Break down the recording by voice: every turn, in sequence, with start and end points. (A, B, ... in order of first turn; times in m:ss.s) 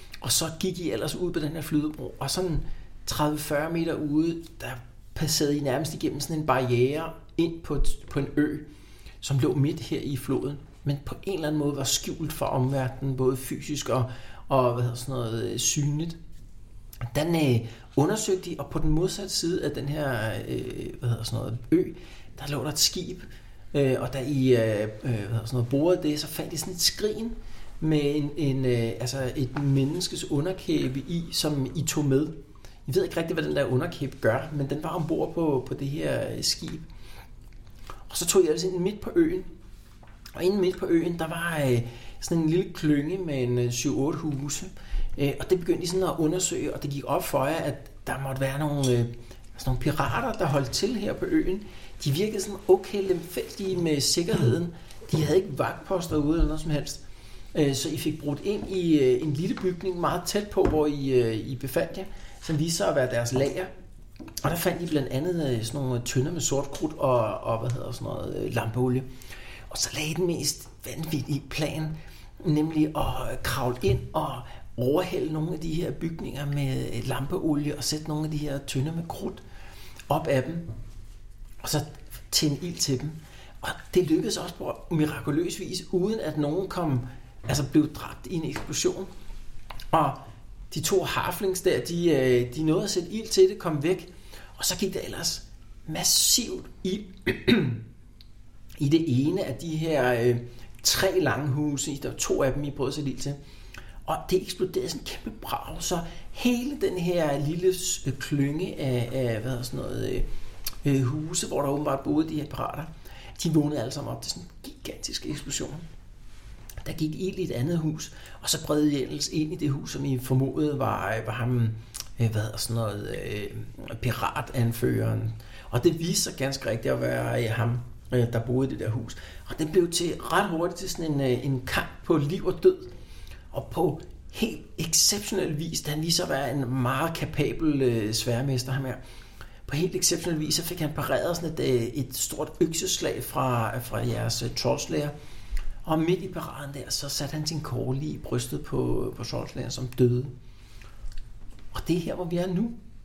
0:00.2-0:08.7 A
0:09.2-0:16.2 A
0:17.1-0:36.9 A
0:38.1-0:39.5 A
0:40.4-0:57.0 A
0:57.5-1:03.7 A
1:04.4-1:09.1 A
1:09.7-1:19.4 A
1:20.1-1:20.7 A
1:21.6-1:29.1 A
1:29.9-1:37.8 A
1:38.8-1:43.4 A
1:44.0-1:50.3 A
1:50.8-1:55.8 A
1:56.8-2:12.9 A
2:13.5-2:19.0 A
2:19.7-2:25.1 A
2:25.8-2:30.3 A
2:31.7-2:32.8 A